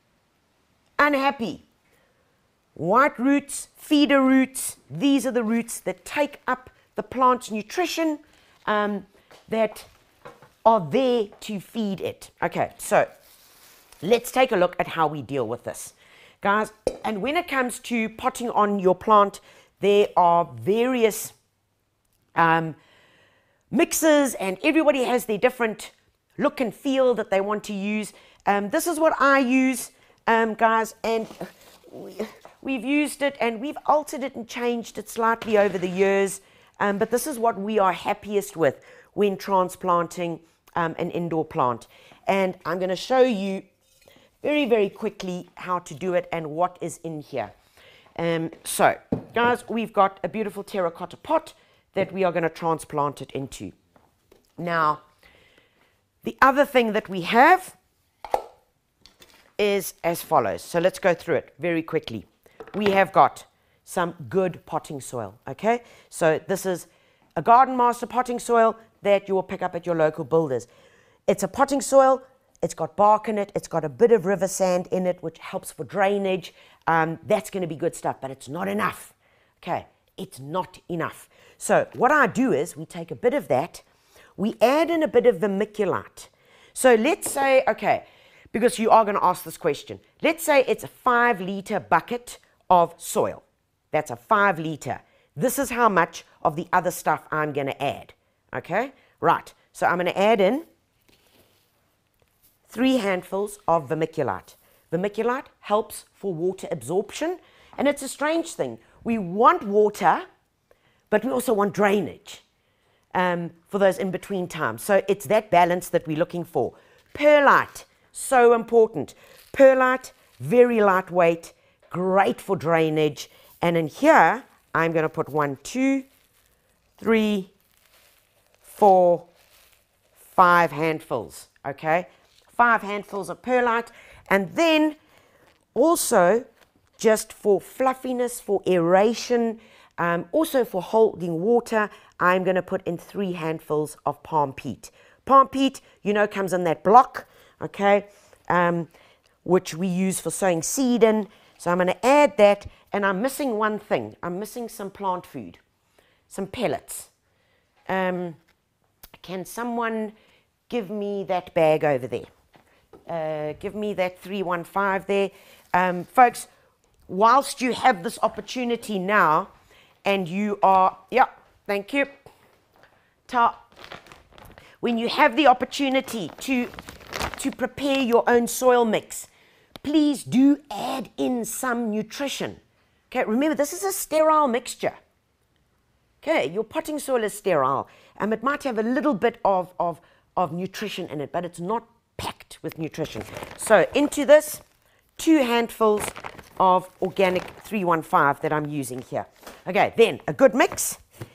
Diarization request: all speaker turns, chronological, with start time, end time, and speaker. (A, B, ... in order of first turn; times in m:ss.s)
0:01.0-0:01.6 A
0:02.8-0:09.9 A
0:10.6-0:13.1 A
0:14.0-0:21.3 A
0:22.4-0:22.8 A
0:23.7-0:43.6 A
0:44.4-0:47.5 A
0:48.2-0:53.7 A
0:54.6-0:55.0 A
0:56.2-0:57.8 A
0:59.6-1:10.7 A
1:11.3-1:23.8 A
1:24.4-1:40.7 A
1:42.7-1:50.3 A
1:51.1-1:52.4 A
1:53.1-2:06.1 A
2:07.0-2:07.5 A
2:08.6-2:09.3 A
2:10.2-2:15.0 A
2:15.8-2:16.5 A
2:17.0-2:28.9 A
2:29.4-2:35.6 A
2:36.3-2:37.1 A
2:37.9-2:38.4 A
2:39.2-2:40.1 A
2:40.7-2:42.3 A
2:43.1-2:46.5 A
2:47.1-2:49.5 A
2:50.0-2:52.1 A
2:53.3-2:53.7 A
2:54.8-2:56.7 A
2:57.4-2:59.3 A
2:59.8-3:02.6 A
3:03.1-3:05.0 A
3:06.2-3:14.6 A
3:15.2-3:21.0 A